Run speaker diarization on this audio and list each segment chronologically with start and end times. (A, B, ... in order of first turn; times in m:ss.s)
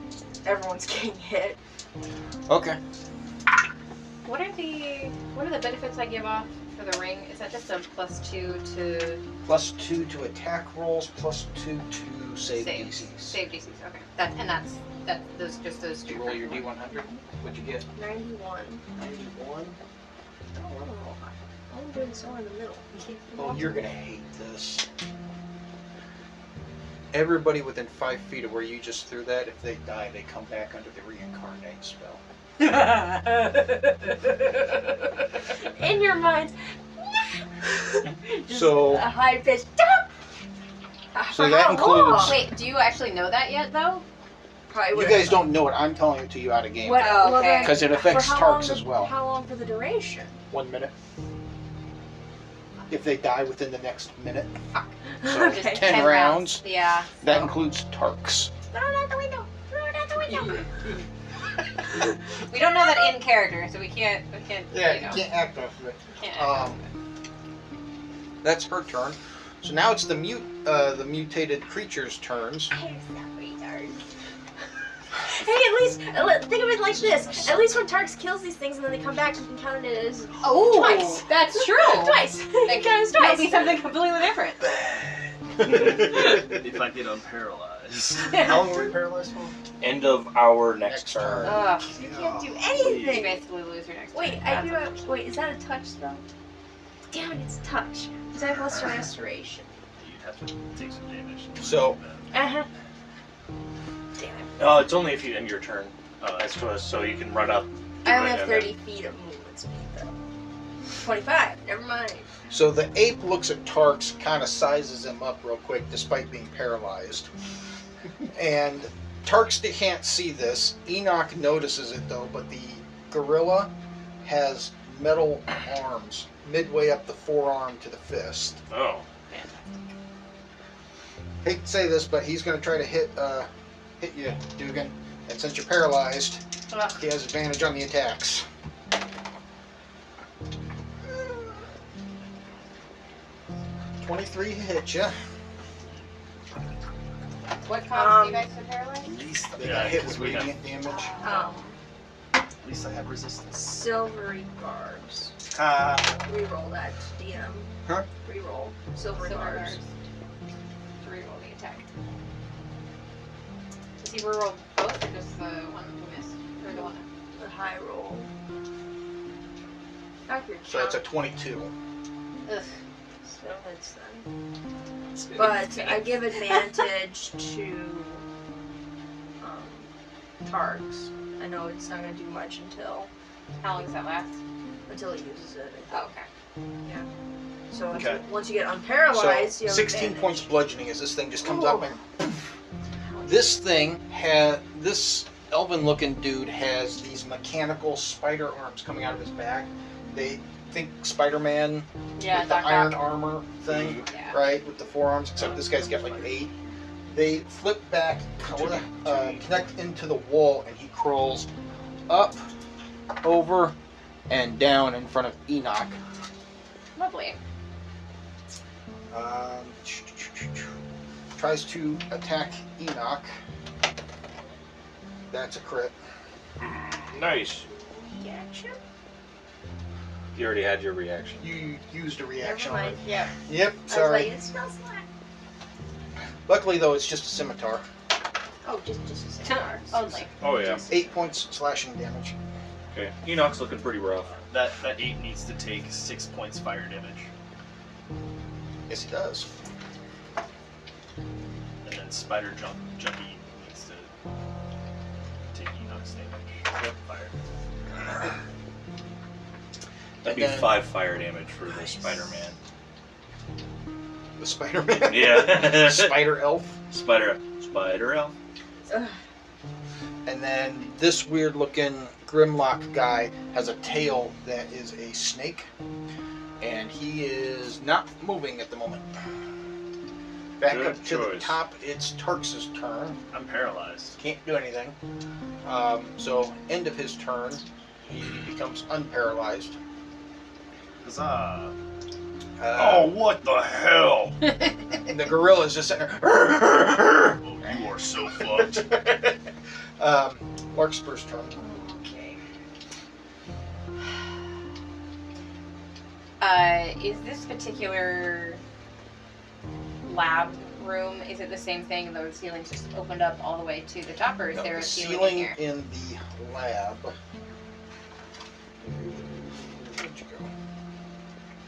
0:00.4-0:01.6 A
0:02.5-0:02.8 B
0:04.2-0:09.2 C
0:09.4-0:13.4 B
0:12.5-0:16.7 C
0:16.1-0:17.8 B
0:17.9-0:18.8 A
0:19.0-0:19.8 B
0:20.6-0:23.9 A
0:23.4-0:24.8 B
0:27.1-0:32.2 B
0:35.6-0:40.1 A
0:38.5-0:39.1 B
0:41.1-0:42.4 A
0:41.3-0:42.4 B
0:42.1-0:44.0 C
0:44.7-0:45.5 A
0:44.9-0:49.1 B
0:46.8-0:50.4 A
0:47.0-0:47.8 C
0:50.5-0:50.9 B
0:52.9-0:54.6 B
0:55.2-0:55.9 A
0:55.2-0:56.6 B
0:55.5-0:57.4 C
0:57.2-0:58.5 B
0:58.7-1:00.7 A
1:00.3-1:00.7 C
1:02.4-1:05.2 C
1:04.7-1:06.8 B
1:06.2-1:06.8 C
1:08.4-1:12.7 B
1:12.7-1:14.0 A
1:15.2-1:23.8 A
1:17.1-1:17.5 B
1:20.4-1:24.7 C
1:25.6-1:29.6 D
1:29.8-1:31.6 E
1:30.7-1:31.7 B
1:31.4-1:31.9 C
1:31.4-1:33.4 A
1:31.9-1:33.3 D
1:33.0-1:34.9 C
1:34.1-1:36.2 A
1:37.1-1:39.7 A
1:40.0-1:42.3 D
1:41.6-1:42.0 B
1:42.3-1:42.7 A
1:44.2-1:44.5 A
1:44.6-1:48.7 E
1:46.2-1:46.5 D
1:48.0-1:50.1 A
1:51.0-1:52.3 A
1:52.5-1:57.3 B
1:58.3-2:03.7 B
2:04.2-2:08.6 B
2:08.7-2:09.0 E
2:09.3-2:09.8 C
2:11.4-2:13.5 B
2:14.0-2:18.4 B
2:16.7-2:17.0 C
2:24.0-2:25.1 B
2:27.6-2:29.2 C
2:27.9-2:28.5 A
2:29.0-2:30.6 D
2:29.6-2:31.2 B
2:30.8-2:31.5 C
2:31.2-2:31.8 A
2:32.6-2:33.9 D
2:33.6-2:35.3 A
2:35.5-2:36.2 D
2:36.2-2:39.8 A
2:39.2-2:39.9 C
2:41.0-2:41.8 C
2:44.0-2:47.0 C
2:46.7-2:48.3 A
2:50.3-2:51.0 A
2:50.6-2:51.7 B
2:53.2-2:54.3 A
2:55.3-2:56.1 C
2:55.3-2:58.2 A
2:59.4-2:59.9 A
3:00.4-3:03.1 A
3:03.6-3:04.4 C
3:04.9-3:06.1 A
3:05.9-3:06.3 C
3:07.7-3:10.5 A
3:07.9-3:08.2 D
3:09.1-3:12.3 B
3:11.5-3:11.8 A
3:13.2-3:26.5 B
3:22.2-3:23.1 C
3:23.7-3:24.0 E
3:24.1-3:24.4 C
3:27.0-3:31.5 B
3:28.5-3:29.4 E
3:32.1-3:32.5 B
3:33.2-3:33.8 B
3:34.3-3:36.0 B
3:37.0-3:37.4 C
3:39.1-3:40.7 B
3:41.3-3:43.4 B
3:45.3-3:45.9 B
3:46.6-3:47.7 E
3:47.7-3:48.8 A
3:50.3-3:51.5 E
3:51.4-3:54.3 B
3:52.4-3:53.4 A
3:53.9-3:55.0 A
3:56.5-3:57.9 B
3:58.6-4:01.4 A
3:59.4-4:00.3 C
4:00.4-4:00.8 E
4:00.9-4:02.3 B
4:02.9-4:04.3 E
4:04.3-4:07.3 D
4:08.9-4:09.5 B
4:11.8-4:14.1 D
4:15.5-4:17.3 D
4:20.2-4:20.8 B
4:20.2-4:22.6 E
4:24.4-4:26.8 B
4:25.0-4:26.3 E
4:26.9-4:28.3 E
4:28.9-4:29.2 A
4:30.2-4:35.7 B
4:36.6-4:39.1 B
4:40.6-4:43.2 B
4:40.6-4:41.6 E
4:43.3-4:44.2 D
4:44.2-4:45.0 B
4:45.6-4:49.7 B
4:51.0-4:51.7 D
4:52.6-4:53.2 B
4:52.7-4:54.5 D
4:55.0-4:57.4 B
4:57.4-4:59.2 D
4:58.8-4:59.3 B
5:00.0-5:01.6 B
5:01.6-5:02.4 A
5:06.4-5:08.6 C
5:10.0-5:15.6 C
5:14.5-5:17.1 B
5:18.8-5:20.5 B